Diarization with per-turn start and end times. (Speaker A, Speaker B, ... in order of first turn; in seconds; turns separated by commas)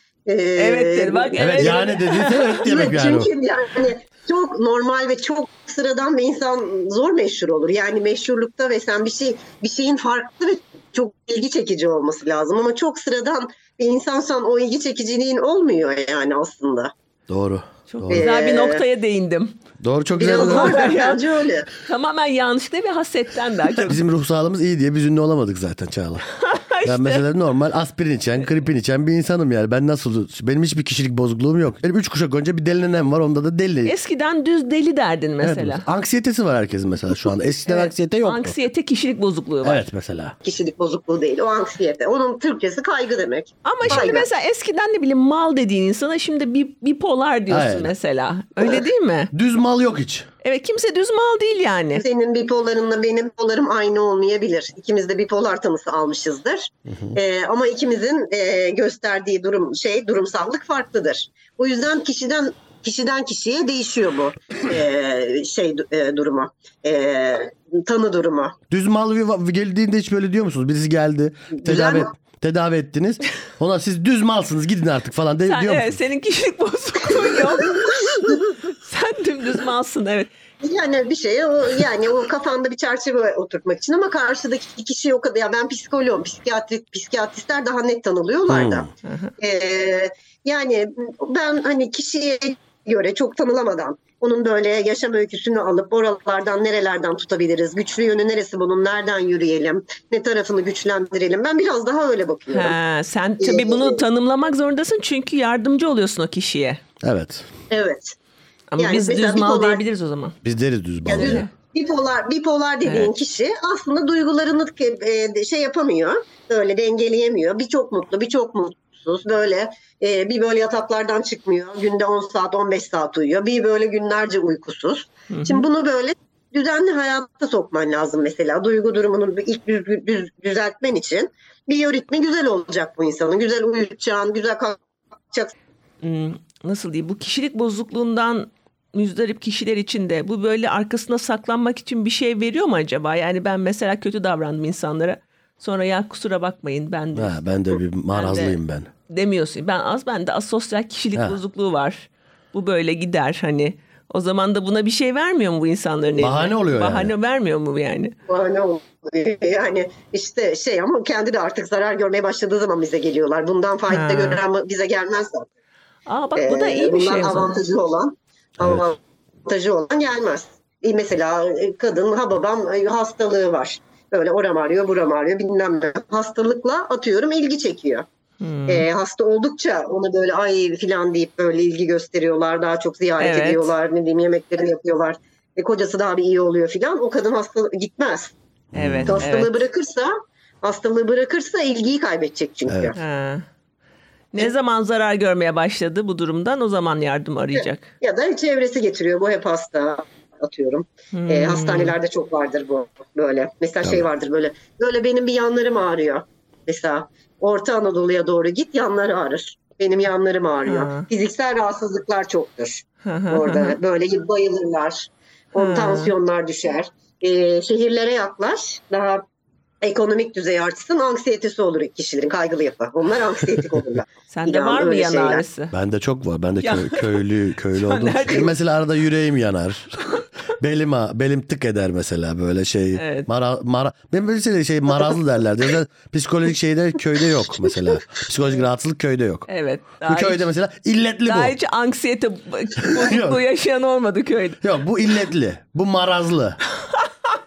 Speaker A: 0.3-1.9, Speaker B: 0.6-2.6, Speaker C: 1.4-3.3, Speaker A: 2.6-16.9, Speaker C: 17.3-18.3, Speaker B: 17.9-19.6, Speaker A: 18.1-18.8, Speaker C: 19.8-20.9, Speaker A: 20.1-21.7, Speaker B: 20.2-21.2, Speaker B: 21.8-24.0, Speaker C: 23.8-26.2, Speaker B: 26.3-27.2, Speaker C: 26.8-33.9, Speaker B: 33.8-35.9, Speaker C: 35.4-38.5, Speaker B: 37.6-39.8, Speaker C: 39.6-40.3, Speaker A: 40.4-44.3, Speaker B: 43.6-49.3, Speaker C: 47.5-47.9, Speaker C: 49.3-50.3, Speaker B: 50.4-52.0, Speaker A: 51.9-68.6, Speaker C: 68.7-75.9, Speaker A: 71.5-72.1, Speaker B: 75.5-80.3, Speaker A: 77.6-78.5, Speaker A: 80.6-102.8, Speaker C: 88.5-88.9, Speaker B: 89.0-89.3, Speaker B: 102.5-106.8, Speaker A: 103.4-104.0, Speaker C: 107.0-107.5, Speaker A: 107.7-108.2, Speaker B: 108.7-110.3, Speaker A: 108.8-109.8, Speaker C: 110.4-111.4, Speaker A: 111.0-135.5, Speaker B: 111.1-111.5, Speaker B: 112.8-113.1, Speaker B: 125.3-125.6, Speaker B: 136.0-147.5, Speaker C: 147.1-148.9, Speaker B: 148.1-158.1, Speaker C: 156.2-157.1, Speaker A: 158.3-165.5, Speaker B: 163.9-164.4, Speaker B: 166.1-167.5, Speaker A: 166.3-178.1, Speaker C: 168.6-168.9, Speaker B: 178.4-178.9, Speaker A: 178.7-188.3, Speaker B: 183.2-183.7, Speaker C: 188.7-189.3, Speaker B: 188.7-189.6, Speaker A: 189.1-193.0, Speaker C: 192.7-192.9, Speaker B: 192.9-193.4, Speaker B: 194.3-197.9, Speaker A: 197.6-219.2, Speaker B: 201.1-202.0, Speaker B: 210.7-211.1, Speaker B: 213.0-213.8, Speaker B: 215.5-216.1, Speaker A: 219.8-225.4, Speaker B: 224.3-225.7, Speaker C: 225.7-239.5, Speaker B: 226.6-227.2, Speaker B: 227.7-228.6, Speaker B: 232.9-233.3, Speaker B: 239.5-240.4, Speaker C: 240.0-241.5, Speaker B: 241.3-244.6, Speaker C: 242.8-243.4, Speaker C: 244.6-246.6